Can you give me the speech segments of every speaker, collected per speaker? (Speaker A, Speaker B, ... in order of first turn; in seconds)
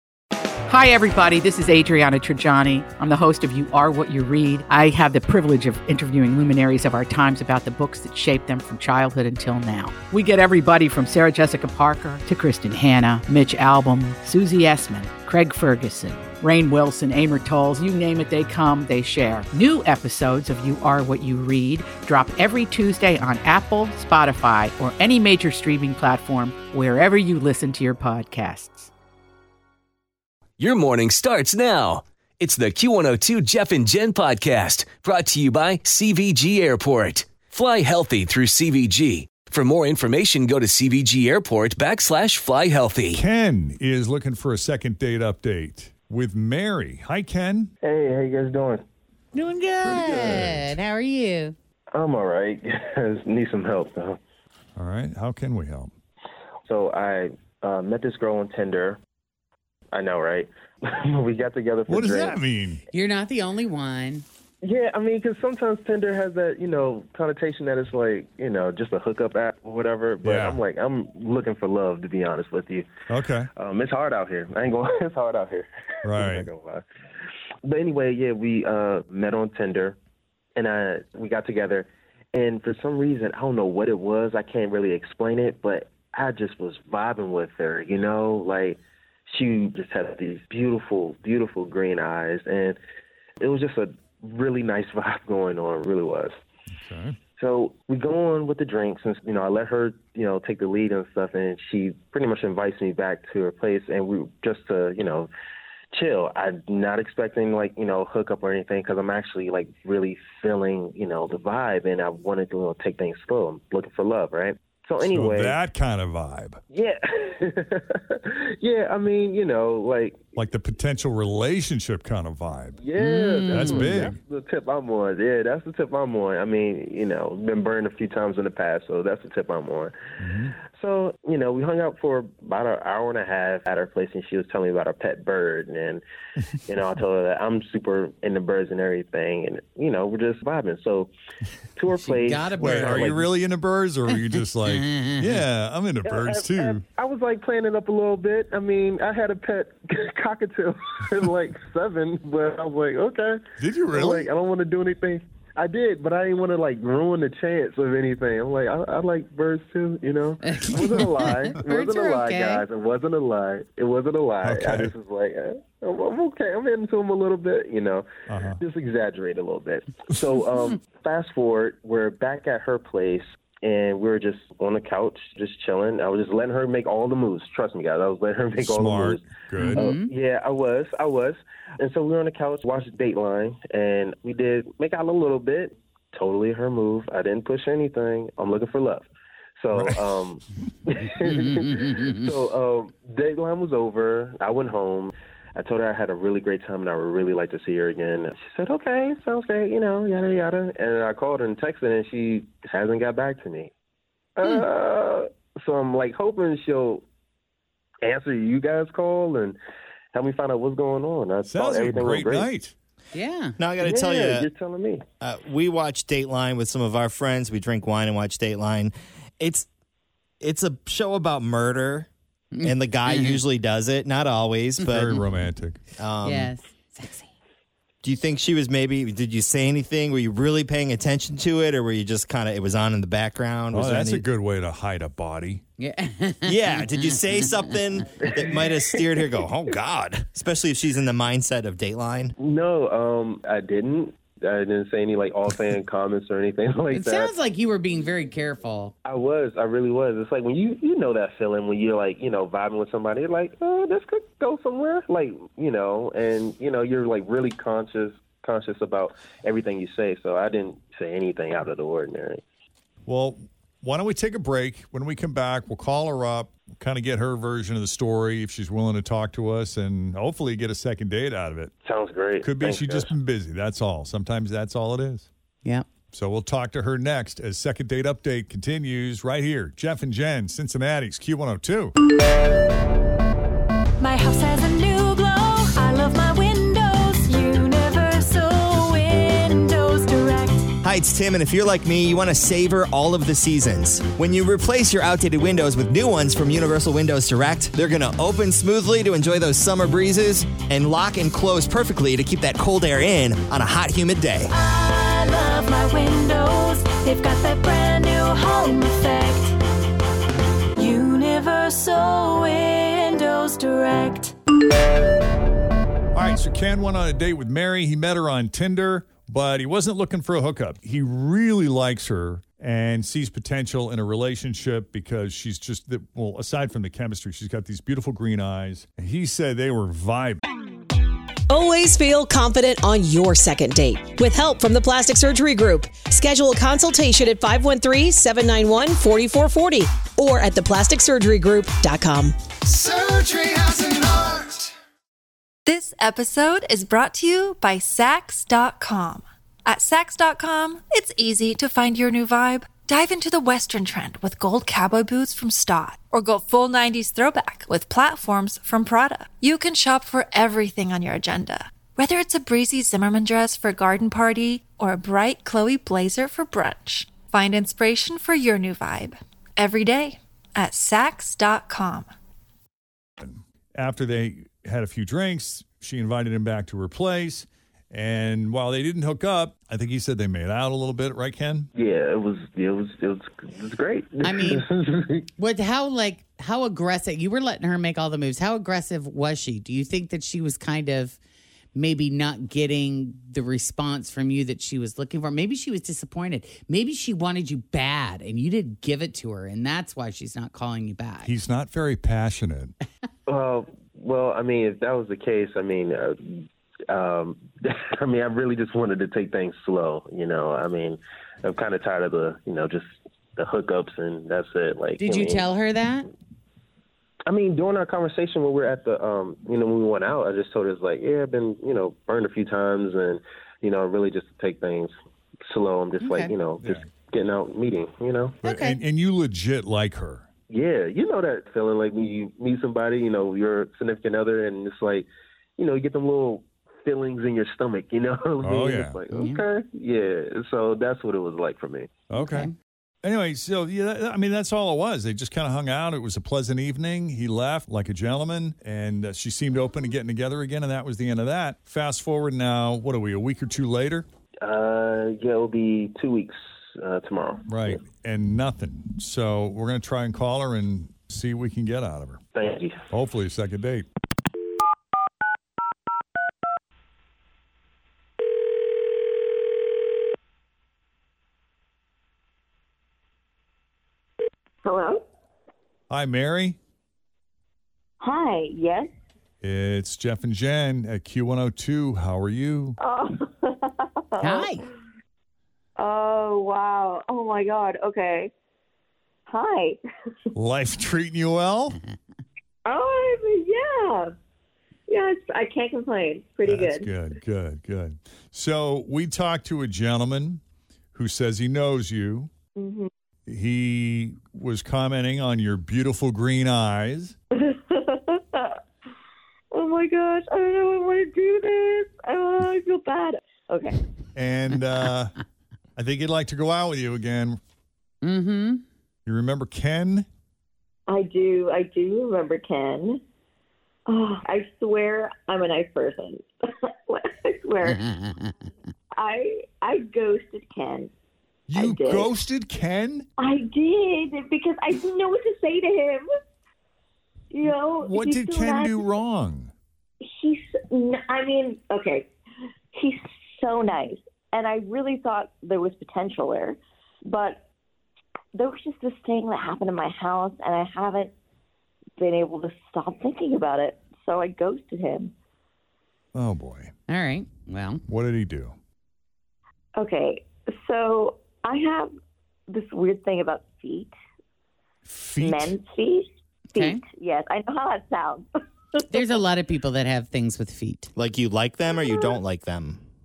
Speaker A: 0.7-28.9
Speaker B: 30.6-43.2
Speaker C: 43.1-47.7, 49.8-50.7, 54.8-55.9, 61.9-62.8, 70.2-70.6, 73.1-73.5, 76.0-76.5, 96.7-97.2, 115.0-116.6, 120.3-122.8, 123.5-124.2, 130.2-130.6, 142.6-146.8, 153.6-154.3, 164.4-164.9, 168.3-168.6, 178.6-180.0, 189.7-190.2, 211.4-212.7, 224.9-225.8, 233.7-235.6, 263.1-271.7, 272.4-275.3, 276.1-281.9, 316.1-330.4, 373.2-381.7, 401.2-402.7, 426.6-426.9, 428.4-430.2, 438.4-439.0, 442.1-442.5, 443.0-454.1, 457.5-462.2, 462.9-463.9, 475.9-476.6, 479.4-482.8, 490.3-491.8, 496.4-500.4, 500.9-502.3, 503.3-507.1, 514.1-515.1, 515.8-517.4, 519.0-520.1, 531.5-533.1, 537.4-539.5, 556.1-556.7, 557.9-558.5, 564.9-565.5
Speaker D: 47.8-48.8, 51.9-54.2, 56.6-59.0, 59.9-62.4, 64.6-72.8, 73.5-76.8, 77.6-80.0, 80.5-92.8, 93.4-96.3, 97.3-105.3, 105.9-115.6, 116.7-120.2, 122.8-129.9, 130.7-136.0, 136.7-141.1, 141.8-143.2, 146.0-168.1, 168.6-189.1, 189.6-203.7, 204.4-207.0, 208.0-209.6, 210.1-212.5, 213.8-215.0, 242.4-247.3, 249.0-262.4, 271.8-273.1, 381.7-385.2, 403.3-415.5, 417.3-424.9, 425.5-428.4, 430.5-441.9, 454.4-457.8, 462.3-462.7
Speaker E: 49.3-51.5, 62.9-64.2, 123.0-124.1, 141.9-143.3, 144.6-145.4, 160.4-162.6, 179.6-180.1, 213.1-213.6, 222.5-223.4, 224.8-225.3, 226.2-227.3, 235.8-237.5, 246.9-248.9, 384.2-384.6, 385.4-391.2, 391.7-401.3, 415.0-416.1, 426.0-426.3, 428.4-428.8, 439.1-439.4, 442.1-442.5, 484.2-484.6, 518.0-518.6, 527.6-528.3, 556.9-557.8, 566.5-566.8, 568.9-570.9
Speaker F: 213.6-214.5, 215.2-219.7, 220.4-222.1, 222.6-225.2, 226.0-226.5, 228.0-234.2, 236.4-242.3, 290.8-304.5, 571.0-572.8
Speaker G: 284.0-290.7, 304.5-309.6, 310.8-314.3
Speaker H: 331.5-344.6
Speaker I: 345.6-372.1
Speaker J: 474.6-475.0, 478.0-478.9, 482.8-484.5, 485.8-488.3, 489.3-489.8, 492.6-494.1, 494.9-496.9, 502.6-502.9, 507.4-508.5, 509.5-513.8, 520.9-523.0, 523.9-526.3, 526.9-527.8, 529.0-530.9, 531.5-532.0, 533.2-536.1, 537.3-538.8, 540.0-542.1, 542.8-547.4, 548.3-551.1, 552.0-555.1, 559.8-561.9, 562.5-563.9, 565.2-569.0